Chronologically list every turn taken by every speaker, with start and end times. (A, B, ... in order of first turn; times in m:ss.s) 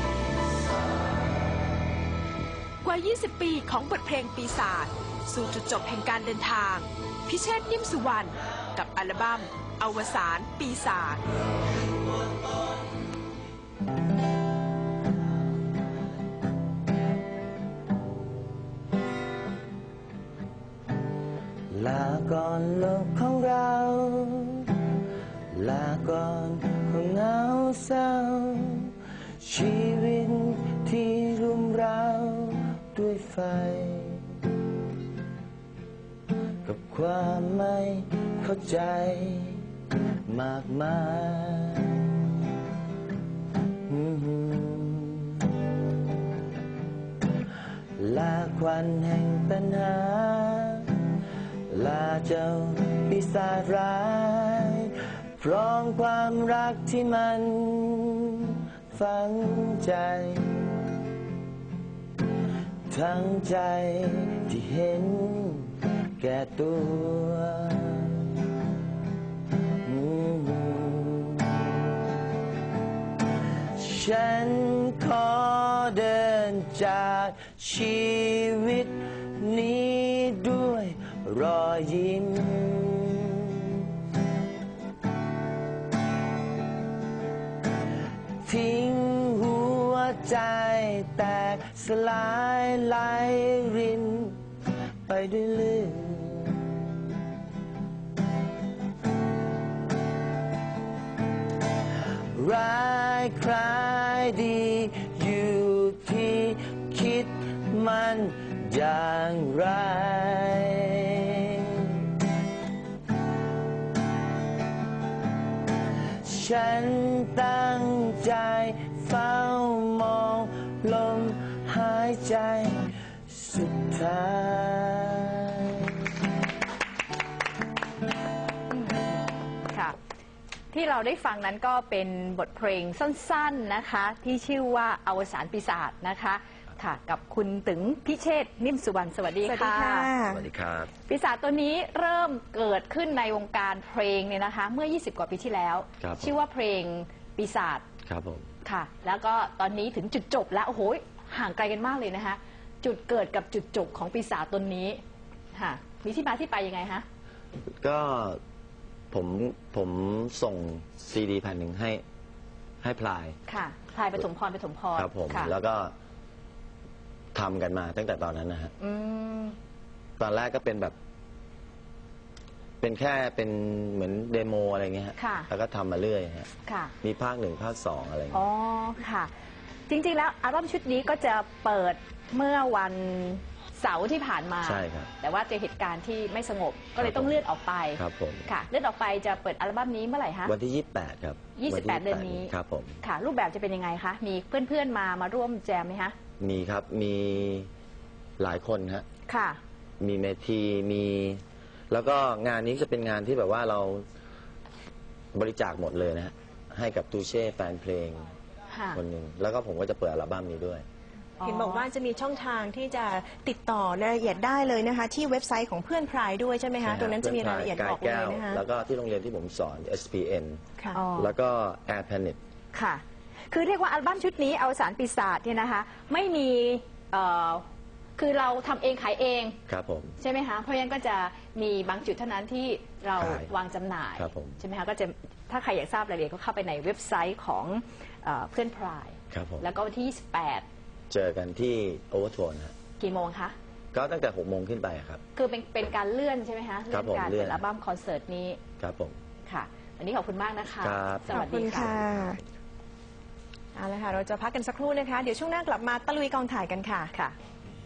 0:02.8-0:11.2 A
0:21.7-0:24.9 B
0:25.5-0:34.4 B
0:36.6-0:39.7 B
0:40.3-0:42.1 B
0:43.9-0:45.6 B
0:48.0-0:51.1 B
0:51.7-1:00.8 B
1:02.9-1:08.4 B
1:09.8-1:11.8 B
1:13.7-1:23.9 B
1:28.4-1:34.4 B
1:35.1-1:36.7 B
1:42.3-1:52.0 B
1:56.2-2:06.1 B
2:08.7-2:10.0 C
2:10.7-2:20.1 C
2:19.4-2:20.5 D
2:20.3-2:20.9 B
2:21.1-2:27.8 C
2:26.0-2:26.3 B
2:28.0-2:28.5 B
2:28.6-2:35.0 C
2:35.5-2:37.0 C
2:37.8-2:38.4 B
2:39.1-2:42.0 B
2:42.8-2:43.4 B
2:43.5-2:45.5 C
2:45.0-2:46.0 B
2:47.3-2:48.7 B
2:48.8-2:49.6 C
2:50.2-2:51.0 B
2:52.8-2:56.5 B
2:55.2-2:55.5 C
2:56.6-2:56.9 C
2:57.0-2:58.5 B
2:58.3-2:59.3 C
2:59.9-3:10.5 C
3:04.6-3:05.1 B
3:07.0-3:07.4 B
3:08.0-3:08.5 B
3:10.5-3:13.0 B
3:11.6-3:16.2 C
3:16.4-3:17.7 B
3:18.4-3:19.0 B
3:19.3-3:19.6 C
3:20.0-3:24.1 B
3:25.3-3:28.3 B
3:28.7-3:29.0 C
3:28.9-3:30.8 B
3:31.4-3:31.8 C
3:31.4-3:38.6 D
3:36.8-3:40.6 B
3:40.9-3:41.3 C
3:41.2-3:42.4 B
3:42.7-3:47.6 C
3:48.2-3:49.6 C
3:49.7-3:50.2 B
3:50.2-4:00.6 C
3:53.2-3:53.5 B
3:54.2-3:54.6 B
3:59.3-3:59.7 B
4:01.1-4:02.8 B
4:03.0-4:03.6 C
4:03.9-4:05.2 B
4:05.4-4:08.6 C
4:06.9-4:07.6 B
4:08.8-4:09.2 B
4:09.5-4:12.0 C
4:10.8-4:11.4 B
4:11.3-4:12.4 D
4:13.8-4:17.1 D